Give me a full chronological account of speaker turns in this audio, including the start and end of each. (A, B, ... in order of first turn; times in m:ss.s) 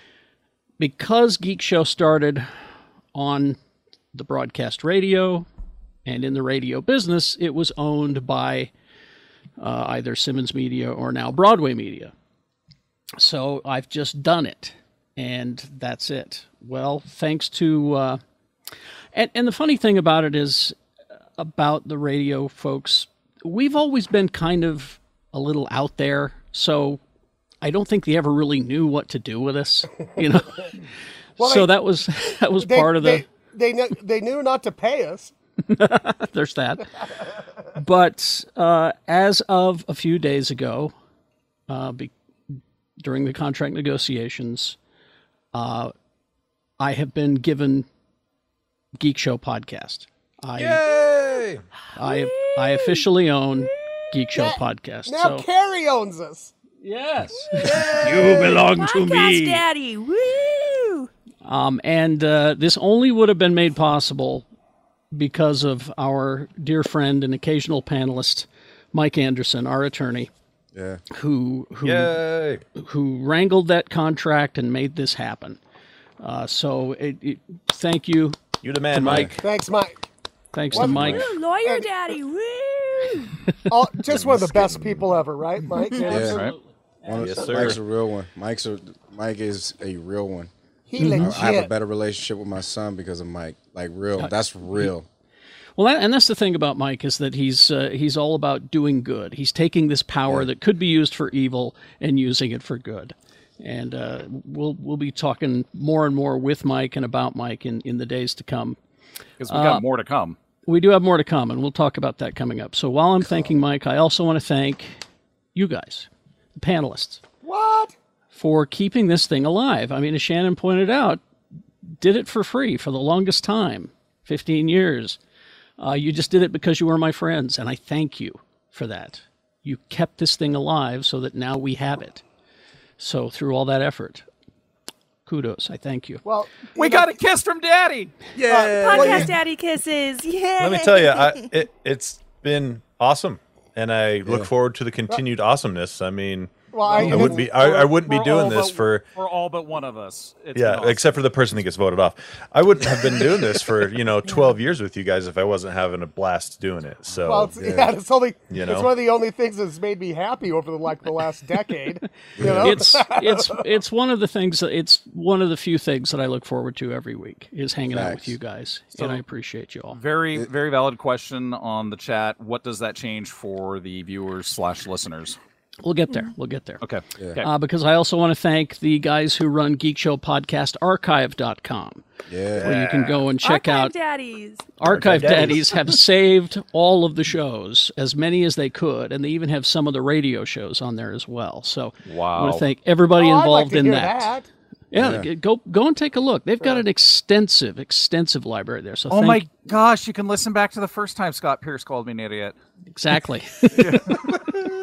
0:00.8-0:02.5 A
0:03.1-0:03.6 A
0:04.1-0:05.4 A
0:06.0-0:08.7 A
0:09.6-0:12.1 A
0:13.2-0:18.2 A
0:19.1-0:20.8 A
0:21.4-0:27.0 A
0:27.6-0:30.8 A
0:31.4-0:31.7 B
0:31.4-0:33.2 A
0:32.6-0:35.3 B
0:35.7-0:36.9 A
0:37.8-0:40.9 A
0:41.7-0:44.8 A
0:45.5-0:45.9 A
0:46.8-0:47.9 A
0:49.0-0:50.8 A
0:50.6-0:51.6 C
0:51.9-0:55.4 A
0:52.0-0:53.0 D
0:53.6-0:54.0 D
0:54.3-0:56.5 B
0:56.8-0:59.6 A
0:57.6-0:58.5 C
0:57.9-1:01.1 D
1:01.4-1:04.4 A
1:05.1-1:10.3 A
1:10.7-1:11.0 E
1:11.1-1:12.2 A
1:11.8-1:12.6 C
1:12.8-1:15.6 A
1:16.2-1:18.4 A
1:18.6-1:19.4 C
1:18.9-1:19.4 A
1:19.4-1:20.0 B
1:20.5-1:21.2 A
1:20.7-1:21.2 E
1:20.8-1:21.9 B
1:21.0-1:23.4 D
1:23.7-1:26.5 B
1:24.1-1:25.0 C
1:25.9-1:27.8 A
1:26.0-1:26.4 E
1:27.0-1:30.5 E
1:27.2-1:27.8 C
1:30.9-1:31.7 B
1:31.0-1:31.3 A
1:31.1-1:35.1 E
1:34.2-1:34.9 A
1:35.8-1:48.8 A
1:49.4-1:50.4 F
1:49.5-1:49.8 A
1:50.6-1:55.0 A
1:55.5-1:57.2 A
1:57.4-1:57.9 B
1:58.3-2:01.2 A
2:02.0-2:05.2 A
2:05.8-2:12.2 A
2:13.0-2:14.2 A
2:15.2-2:16.2 A
2:16.2-2:17.2 B
2:16.8-2:18.1 F
2:18.4-2:19.3 C
2:18.5-2:19.4 B
2:18.7-2:21.5 D
2:20.6-2:29.0 C
2:26.7-2:27.5 B
2:26.9-2:31.2 F
2:30.5-2:37.5 C
2:37.2-2:43.6 B
2:37.6-2:37.9 E
2:38.5-2:38.9 C
2:42.4-2:42.8 E
2:42.6-2:50.0 A
2:47.9-2:48.4 E
2:49.0-2:49.2 F
2:49.9-2:55.4 F
2:55.8-2:56.8 A
2:56.8-2:57.5 F
2:57.4-3:02.0 A
3:02.3-3:02.7 E
3:02.6-3:03.9 A
3:02.6-3:03.1 C
3:03.4-3:04.7 D
3:04.8-3:14.3 A
3:04.9-3:05.5 E
3:04.9-3:05.8 C
3:12.0-3:12.6 F
3:13.1-3:14.5 B
3:14.9-3:19.4 A
3:14.9-3:15.3 E
3:19.1-3:22.5 F
3:22.9-3:24.0 A
3:23.7-3:24.2 F